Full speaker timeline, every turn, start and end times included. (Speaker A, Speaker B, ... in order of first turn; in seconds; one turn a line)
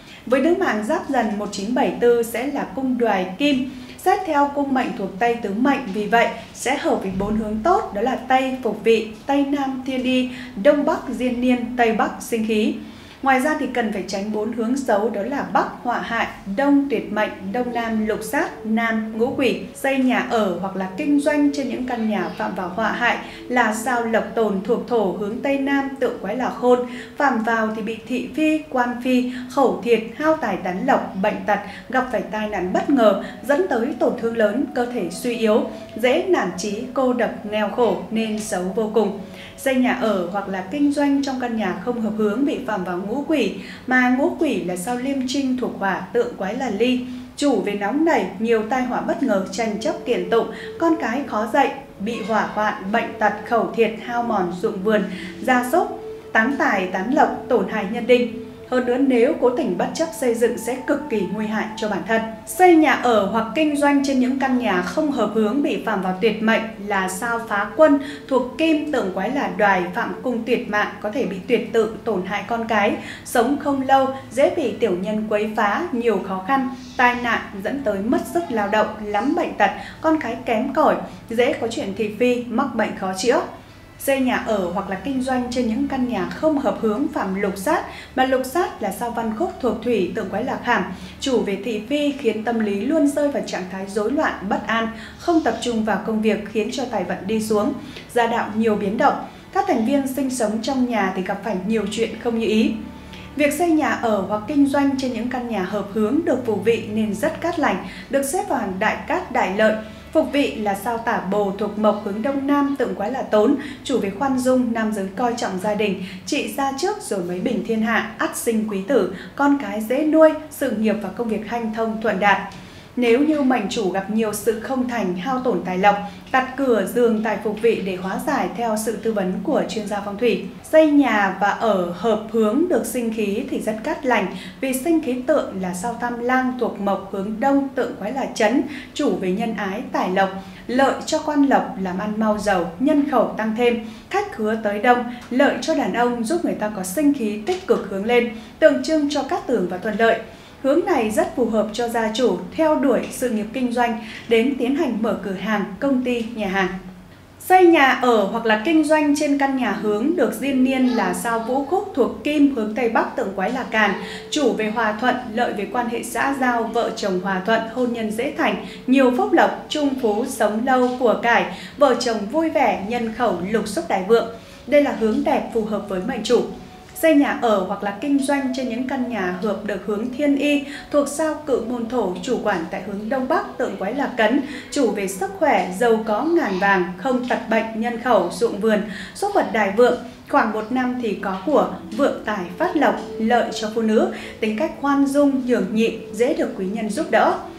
Speaker A: 0.2-83.4
Speaker A: 84.0-102.7
Speaker A: 103.3-122.4
Speaker A: 123.0-156.7
Speaker A: 157.4-197.3